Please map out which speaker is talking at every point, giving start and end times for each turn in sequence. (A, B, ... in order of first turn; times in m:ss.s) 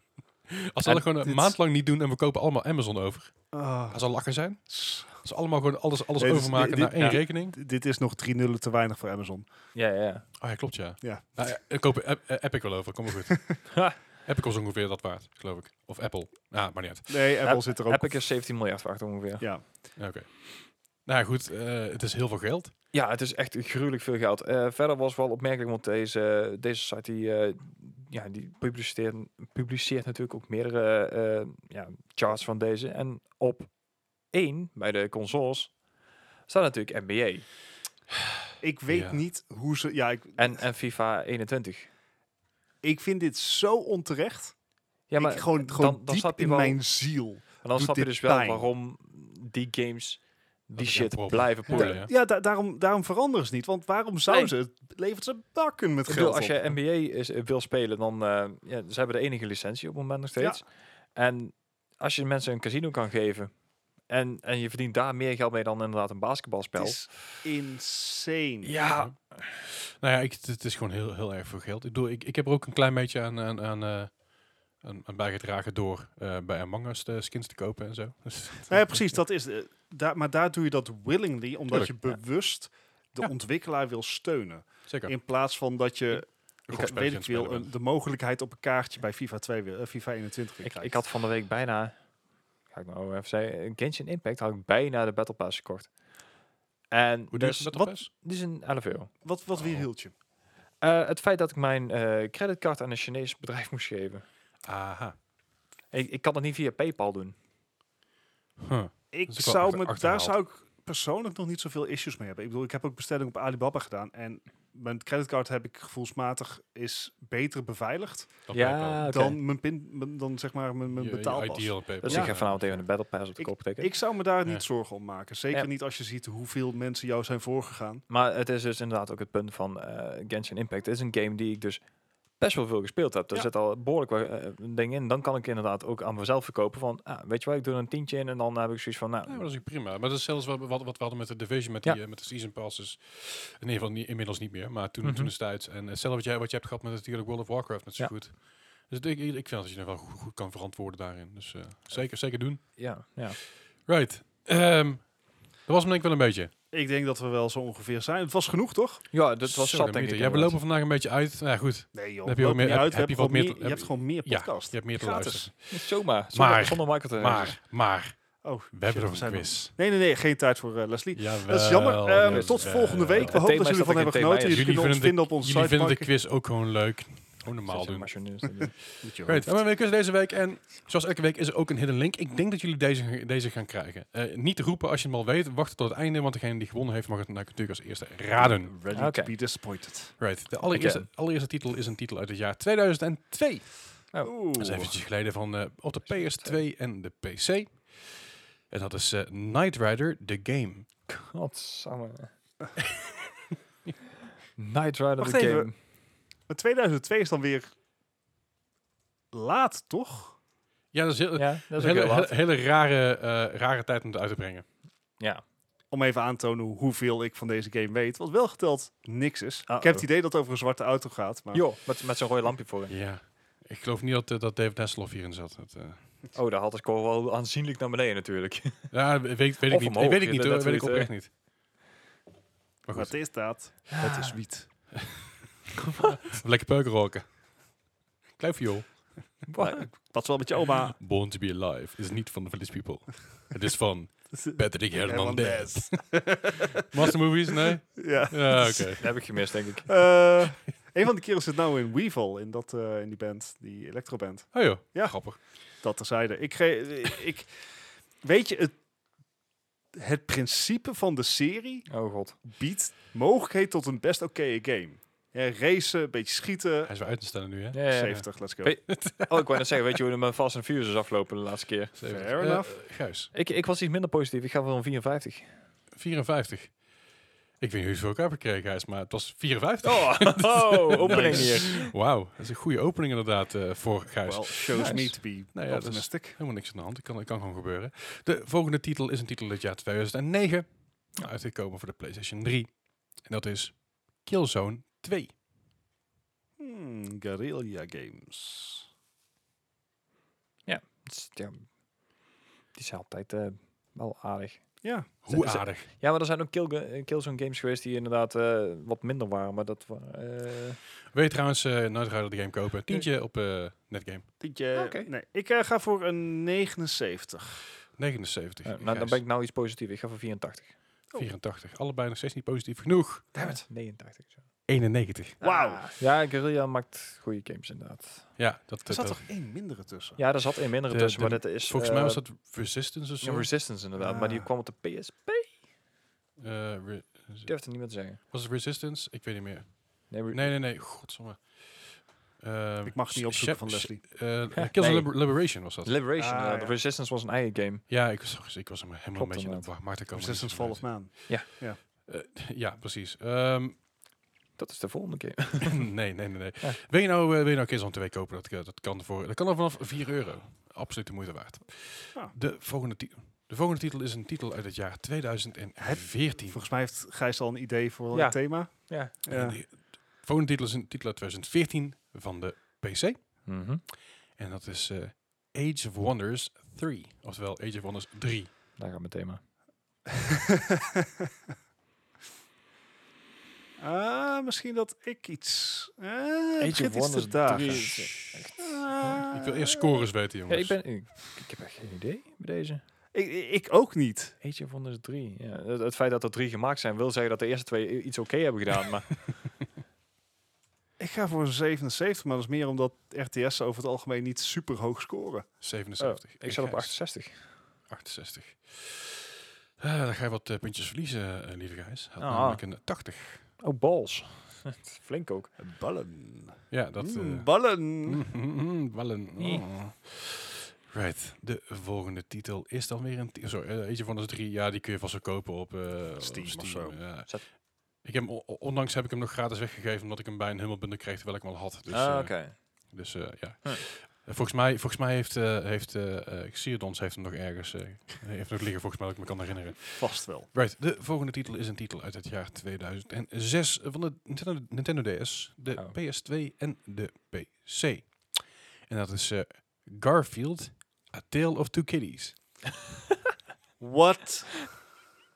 0:00.5-0:07.6 A
0:01.2-0:01.5 B
0:03.5-0:04.0 B
0:04.7-0:05.2 B
0:06.2-0:09.5 B
0:09.7-0:10.3 C
0:10.4-0:13.7 A
0:13.7-0:14.0 C
0:14.2-0:17.1 A
0:17.1-0:18.2 B
0:17.4-0:19.5 C
0:19.4-0:19.7 B
0:20.0-0:22.7 A
0:22.9-0:33.7 C
0:34.3-0:35.7 C
0:36.5-0:37.5 C
0:38.6-0:40.6 B
0:38.9-0:39.2 A
0:40.4-0:41.9 C
0:42.8-0:44.6 B
0:45.1-0:46.8 C
0:45.2-0:48.7 B
0:47.6-0:52.0 C
0:50.8-0:52.1 A
0:51.7-0:56.7 B
0:54.3-0:54.5 C
0:56.1-1:03.5 C
1:04.1-1:07.0 C
1:06.8-1:08.8 B
1:08.6-1:09.5 C
1:08.9-1:14.2 A
1:14.8-1:19.0 A
1:18.7-1:31.0 B
1:24.9-1:25.1 A
1:26.7-1:27.7 A
1:30.6-1:32.0 C
1:32.7-1:35.9 C
1:36.9-1:39.1 C
1:37.3-1:38.1 A
1:39.2-1:40.1 B
1:39.6-1:39.9 A
1:40.8-1:44.2 C
1:44.6-1:45.2 A
1:45.9-1:47.4 C
1:48.6-1:50.4 A
1:49.1-1:58.4 B
1:58.5-1:59.1 A
1:58.5-1:59.4 C
1:59.1-2:02.4 B
2:00.9-2:02.9 A
2:02.0-2:03.9 C
2:03.4-2:08.0 B
2:08.1-2:11.8 C
2:12.4-2:19.5 C
2:19.3-2:32.8 A
2:25.0-2:25.3 C
2:32.8-2:33.4 C
2:33.8-2:36.5 A
2:36.7-2:39.0 B
2:39.1-2:40.6 C
2:39.4-2:45.7 A
2:41.9-2:45.5 B
2:45.7-2:47.6 C
2:46.3-2:48.2 A
2:48.4-2:56.1 B
2:48.7-2:49.8 A
2:51.1-2:53.4 A
2:52.2-2:54.8 C
2:54.5-2:58.1 A
2:57.7-2:58.8 C
2:58.6-2:59.6 B
2:59.2-3:08.7 A
3:08.4-3:10.2 B
3:08.9-3:09.3 C
3:10.2-3:14.1 A
3:10.7-3:11.1 C
3:14.2-3:15.0 B
3:14.6-3:20.9 A
3:16.1-3:16.6 C
3:21.1-3:22.3 C
3:24.6-3:25.7 C
3:25.2-3:25.8 B
3:26.5-3:27.7 B
3:29.3-3:30.4 B
3:30.9-3:34.6 A
3:31.4-3:32.3 C
3:35.2-3:35.4 C
3:35.9-3:41.7 B
3:39.7-3:40.1 C
3:41.5-3:42.9 C
3:42.9-3:46.0 A
3:46.3-3:48.9 C
3:48.9-3:51.3 A
3:49.7-3:51.1 C
3:52.9-3:53.2 A
3:52.9-3:54.9 B
3:53.9-3:54.4 C
3:54.9-3:55.3 A
3:55.8-3:56.2 C
3:56.0-3:57.4 A
3:58.4-3:59.1 A
3:59.5-3:59.9 C
3:59.6-4:01.0 B
4:00.9-4:09.1 A
4:04.3-4:17.5 B
4:09.0-4:10.1 C
4:14.5-4:15.4 A
4:18.2-4:18.8 B
4:19.9-4:21.9 B
4:21.9-4:22.4 C
4:22.4-4:26.9 B
4:26.8-4:28.2 A
4:27.7-4:32.0 C
4:27.9-4:28.8 B
4:28.9-4:29.6 A
4:32.0-4:33.3 A
4:32.0-4:32.8 B
4:33.3-4:35.6 C
4:35.9-4:36.8 A
4:37.6-4:55.4 A
4:39.8-4:41.9 C
4:41.0-4:41.6 B
4:44.2-4:46.4 B
4:44.8-4:45.2 C
4:56.6-4:58.9 B
5:00.7-5:01.7 C
5:02.7-5:10.8 C
5:04.8-5:05.6 B
5:05.2-5:05.9 A
5:11.1-5:14.3 A
5:14.4-5:17.6 B
5:14.7-5:15.1 C
5:18.0-5:19.2 A
5:18.6-5:20.8 C
5:21.2-5:23.3 A
5:23.3-5:23.6 B
5:23.4-5:24.4 C
5:24.7-5:25.4 A
5:25.4-5:25.9 B
5:25.4-5:28.4 C
5:28.4-5:29.2 A
5:28.9-5:30.2 B
5:30.2-5:32.3 C
5:30.9-5:33.5 A
5:33.2-5:35.6 C
5:34.0-5:34.5 B
5:36.4-5:37.6 A
5:37.5-5:38.2 C
5:38.3-5:46.0 A
5:40.1-5:40.6 C
5:42.9-5:44.0 B
5:44.5-5:47.8 C
5:46.2-5:46.8 B
5:47.9-5:51.3 A
5:49.2-5:49.7 C
5:50.1-5:51.8 B
5:52.0-5:53.8 A
5:54.6-5:55.9 C
5:55.8-6:06.6 A
6:05.8-6:09.6 B
6:08.1-6:09.1 C
6:09.3-6:13.5 A
6:13.5-6:13.8 C
6:14.3-6:18.5 A
6:18.8-6:19.4 C
6:20.2-6:21.1 B
6:23.8-6:28.0 B
6:26.6-6:29.2 C
6:28.6-6:30.0 B
6:29.3-6:30.8 A
6:30.5-6:32.8 C
6:33.1-6:34.4 B
6:34.4-6:39.2 C
6:41.0-6:45.5 B
6:45.6-6:46.9 A
6:46.0-6:47.5 C
6:47.9-6:53.5 A
6:52.2-6:52.6 C
6:53.6-6:55.5 C
6:55.6-6:58.3 B
6:56.7-7:32.6 A
6:59.4-6:59.7 C
7:06.2-7:07.0 B
7:11.9-7:12.6 C
7:20.0-7:20.5 B
7:33.8-7:34.8 B